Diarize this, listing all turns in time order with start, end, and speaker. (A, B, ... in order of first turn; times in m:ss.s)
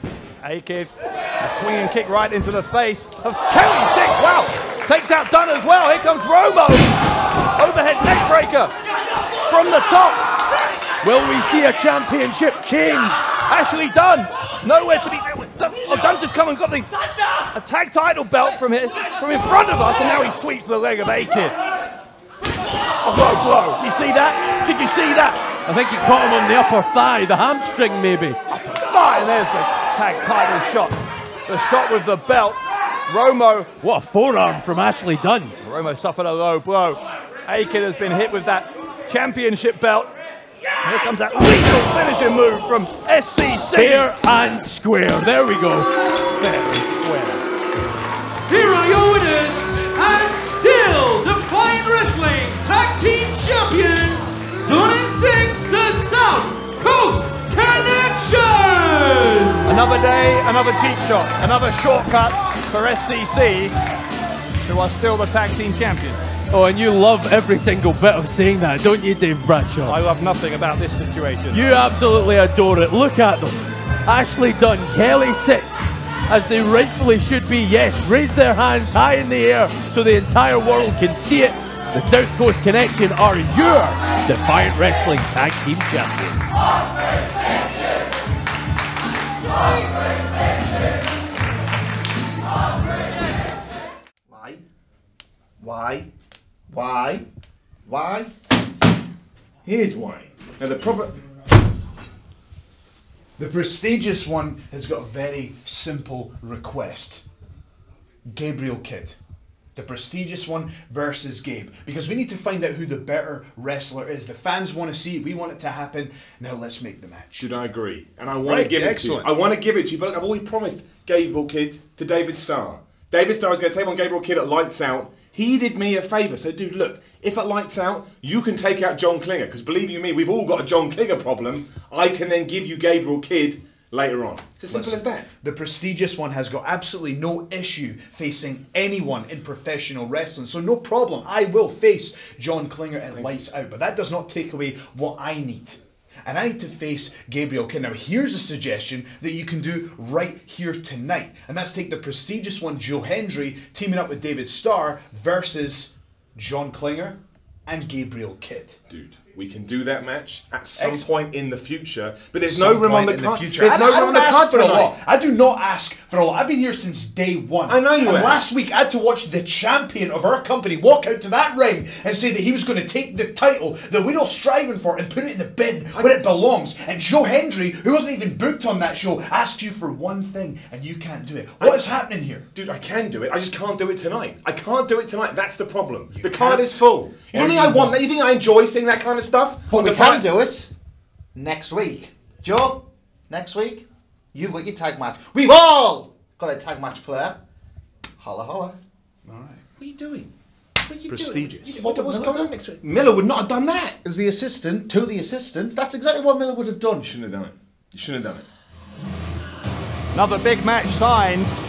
0:00.4-0:06.9 A
0:07.6-0:08.7 A
0:09.5-0:10.2 A
0:11.0-0:13.3 B
0:13.4-0:16.9 A
0:17.5-0:21.5 A
0:23.0-0:25.4 A
0:25.6-0:28.4 B
0:28.5-0:33.7 A
0:33.8-0:35.6 B
0:35.6-0:40.1 A
0:40.8-0:44.1 A
0:43.7-0:45.9 B
0:46.3-0:47.4 A
0:48.5-0:59.8 C
0:59.6-1:03.8 A
1:04.6-1:06.3 A
1:06.5-1:10.0 B
1:09.8-1:11.6 A
1:11.5-1:26.5 B
1:34.3-1:34.6 D
1:35.6-1:36.1 D
1:36.7-1:37.2 D
1:37.8-1:38.3 D
1:39.6-1:41.1 E
1:43.4-1:47.2 F
1:48.3-1:49.2 F
1:49.7-1:57.5 F
1:57.4-2:15.3 E
1:58.4-1:59.3 F
2:14.7-2:38.8 F
2:23.1-2:23.4 E
2:38.9-2:44.9 E
2:42.4-3:02.5 F
2:47.7-2:48.4 E
2:55.9-2:56.2 E
3:01.6-3:01.9 E
3:02.5-3:10.3 E
3:06.1-3:08.0 F
3:09.7-3:10.7 D
3:11.3-3:17.4 D
3:18.2-3:18.8 D
3:19.3-3:19.6 F
3:19.8-3:20.3 E
3:20.8-3:24.0 E
3:21.1-3:22.0 F
3:21.8-3:22.5 D
3:24.0-3:26.8 D
3:27.0-3:28.4 E
3:30.1-3:31.5 A